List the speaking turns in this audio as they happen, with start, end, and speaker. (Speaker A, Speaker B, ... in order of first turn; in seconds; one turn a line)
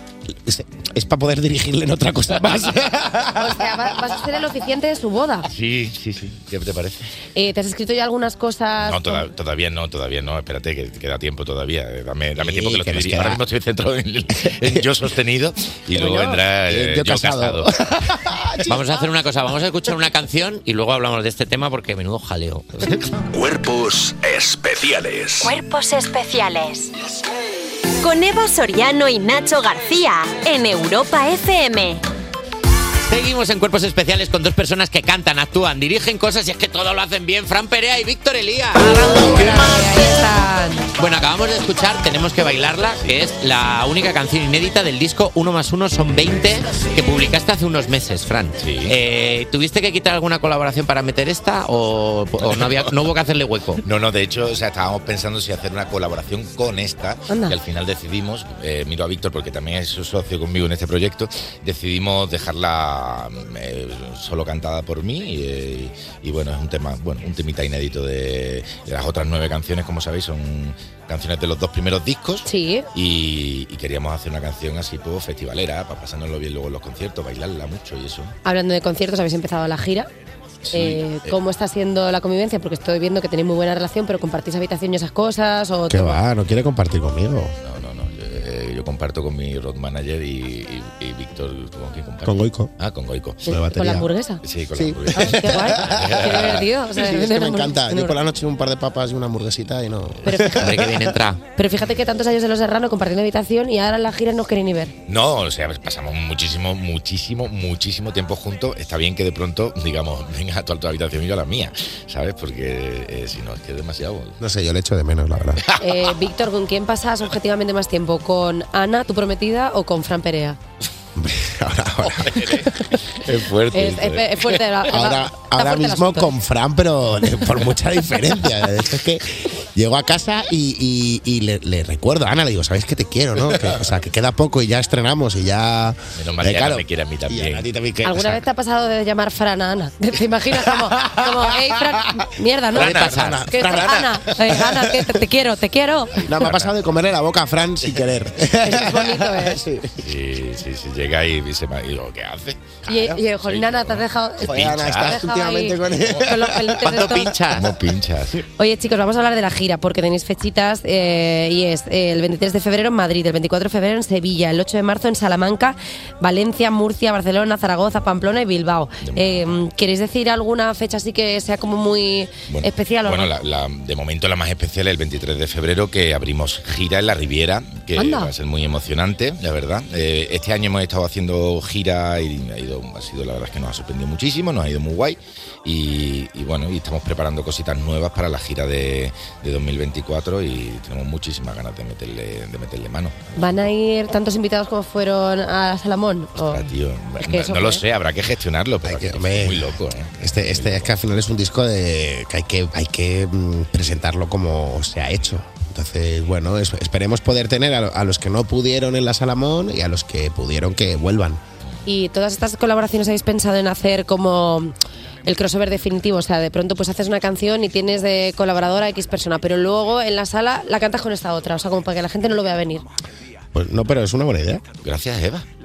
Speaker A: 0.5-3.6
Speaker B: 3.4-5.5
Speaker C: 5.5-7.1
Speaker B: 7.3-9.3
Speaker C: 8.8-17.7
Speaker A: 12.4-13.4
Speaker A: 14.3-14.9
Speaker A: 15.9-19.0
Speaker D: 18.7-22.9
Speaker E: 23.3-25.5
Speaker F: 25.4-26.9
Speaker F: 28.0-32.0
Speaker D: 33.1-39.2
Speaker B: 38.9-40.9
Speaker D: 41.0-53.8
Speaker C: 48.6-49.0
Speaker C: 52.4-52.9
Speaker C: 53.8-78.3
Speaker B: 57.3-57.6
Speaker B: 72.5-72.9
Speaker B: 78.5-80.1
Speaker C: 80.6-81.3
Speaker B: 80.7-86.2
Speaker A: 85.9-87.5
Speaker C: 87.6-93.4
Speaker A: 92.2-92.7
Speaker A: 93.5-94.1
Speaker B: 93.5-94.4
Speaker C: 94.4-96.6
Speaker A: 94.8-100.9
Speaker B: 95.1-98.1
Speaker B: 100.2-100.7
Speaker D: 100.5-101.4
Speaker B: 101.6-104.9
Speaker C: 105.1-114.3
Speaker A: 114.4-115.6
Speaker B: 115.8-120.6
Speaker A: 121.2-122.6
Speaker C: 122.0-124.5
Speaker B: 123.7-126.3
Speaker A: 124.9-138.2
Speaker C: 136.2-137.8
Speaker B: 138.0-146.3
Speaker A: 140.7-145.2
Speaker C: 142.8-143.3
Speaker D: 143.0-143.3
Speaker A: 146.3-150.0
Speaker C: 146.3-146.7
Speaker B: 148.6-149.6
Speaker C: 150.0-155.2
Speaker B: 152.9-157.4
Speaker A: 154.4-156.7
Speaker D: 156.8-157.7
Speaker C: 157.5-158.4
Speaker B: 158.6-173.3
Speaker C: 169.0-169.5
Speaker C: 172.5-193.6
Speaker B: 177.9-178.3
Speaker B: 193.4-197.8
Speaker C: 196.4-200.9
Speaker A: 198.8-211.4
Speaker B: 211.9-214.7
Speaker B: 215.3-222.8
Speaker A: 223.5-224.7
Speaker C: 224.8-225.4